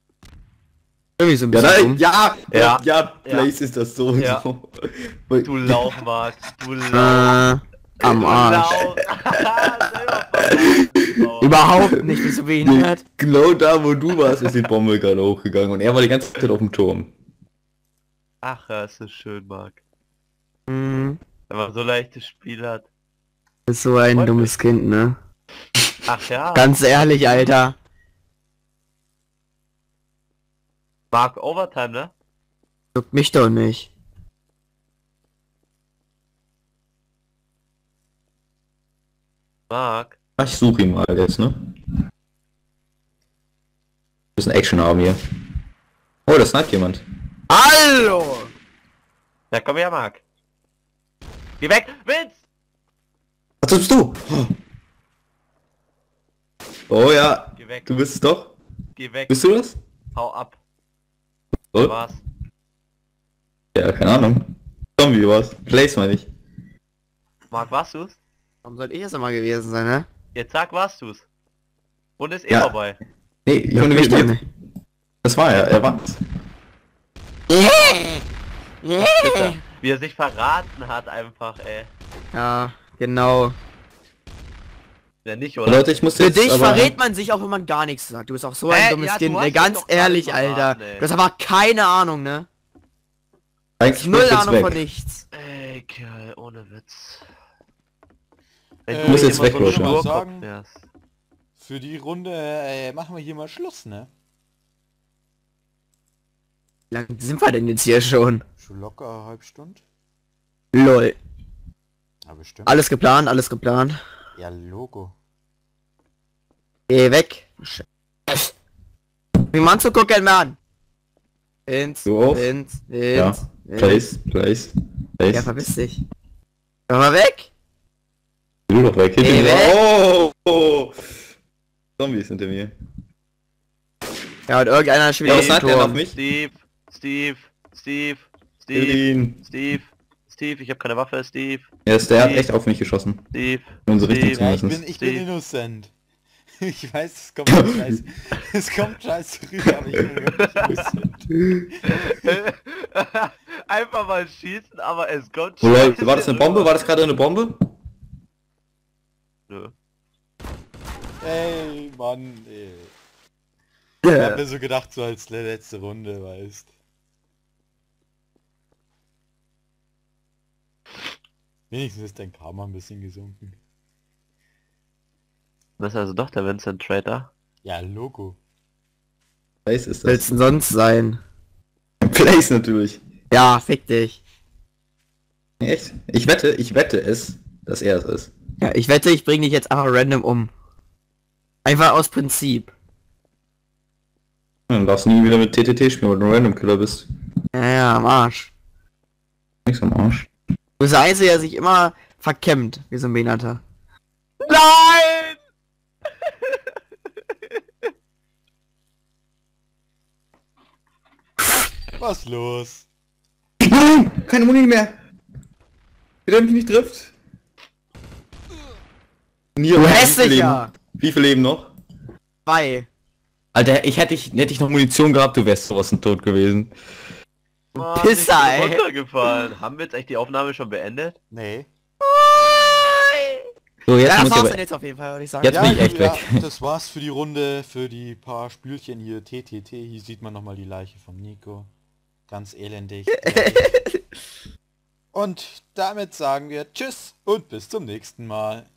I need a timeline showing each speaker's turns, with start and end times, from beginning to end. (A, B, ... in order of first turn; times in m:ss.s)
0:01.2-0:02.0 A
0:01.5-0:06.0 B
0:02.5-0:03.5 C
0:04.2-0:04.4 C
0:05.4-0:07.4 C
0:06.9-0:08.8 A
0:08.0-0:11.7 C
0:09.6-0:11.3 B
0:11.4-0:13.0 A
0:12.0-0:17.1 B
0:18.4-0:19.8 C
0:20.7-0:21.2 A
0:21.5-0:22.9 C
0:23.7-0:25.2 A
0:24.1-0:24.6 C
0:26.1-0:27.5 C
0:26.6-0:27.8 A
0:31.1-0:32.1 C
0:33.0-0:33.9 A
0:39.7-0:40.2 C
0:40.4-0:41.6 B
0:44.4-0:45.2 B
0:46.3-0:47.0 B
0:47.5-0:48.5 A
0:49.5-0:50.2 C
0:51.6-0:52.4 C
0:53.6-0:54.6 B
0:56.9-0:58.5 B
0:57.6-0:57.9 C
0:59.0-0:59.4 C
0:59.3-0:59.8 B
1:00.2-1:00.6 C
1:01.8-1:02.2 C
1:03.7-1:06.3 B
1:07.5-1:08.2 C
1:08.6-1:10.1 A
1:10.4-1:11.2 C
1:12.2-1:13.0 C
1:13.5-1:14.4 B
1:13.7-1:14.4 A
1:15.2-1:16.2 B
1:17.5-1:18.2 A
1:18.8-1:19.6 A
1:19.2-1:21.9 C
1:22.3-1:23.6 A
1:25.2-1:26.0 C
1:25.7-1:27.0 B
1:26.2-1:32.5 A
1:28.7-1:31.1 C
1:33.8-1:34.8 B
1:34.0-1:35.2 A
1:35.3-1:37.3 C
1:38.9-1:40.8 C
1:38.9-1:40.5 D
1:39.0-1:40.0 B
1:41.6-1:44.1 D
1:46.9-1:48.4 A
1:48.6-1:49.8 D
1:50.7-1:51.2 A
1:52.3-1:52.8 D
1:52.7-1:54.0 A
1:54.4-1:55.2 D
1:56.9-1:58.5 A
1:59.5-2:00.6 A
2:01.7-2:04.0 A
2:02.1-2:02.5 B
2:03.1-2:05.6 B
2:05.3-2:06.0 A
2:06.9-2:07.5 A
2:08.7-2:11.0 B
2:09.2-2:09.8 A
2:12.0-2:12.7 B
2:14.5-2:16.0 A
2:15.2-2:16.2 B
2:15.2-2:22.5 C
2:18.7-2:19.4 B
2:21.9-2:23.3 B
2:23.3-2:25.2 C
2:23.9-2:24.8 B
2:24.4-2:25.9 D
2:26.6-2:32.1 D
2:27.5-2:27.8 B
2:30.4-2:30.9 C
2:30.7-2:31.6 B
2:31.9-2:36.8 C
2:35.6-2:37.6 B
2:41.2-2:42.9 D
2:44.0-2:44.4 A
2:44.1-2:46.7 D
2:51.7-2:53.6 D
2:55.8-2:57.3 C
2:57.6-2:58.4 D
2:59.6-3:00.4 B
3:00.1-3:01.2 A
3:02.0-3:03.0 B
3:03.3-3:04.2 A
3:05.6-3:08.3 B
3:08.6-3:10.5 A
3:11.6-3:12.7 A
3:14.7-3:17.1 B
3:17.5-3:18.5 A
3:19.6-3:20.3 B
3:20.8-3:23.6 A
3:24.4-3:25.4 C
3:26.3-3:26.6 C
3:32.0-3:32.9 D
3:33.6-3:35.0 B
3:36.3-3:37.1 B
3:39.6-3:41.7 B
3:39.8-3:40.7 A
3:42.5-3:42.9 A
3:43.5-3:46.7 B
3:47.8-3:51.2 C
3:47.8-3:48.8 A
3:51.3-3:51.7 D
3:52.0-3:53.4 A
3:53.9-3:54.6 B
3:54.1-3:55.9 A
3:55.4-3:56.4 B
3:55.5-4:01.7 D
4:02.3-4:03.8 D
4:03.2-4:04.1 A
4:05.1-4:08.7 D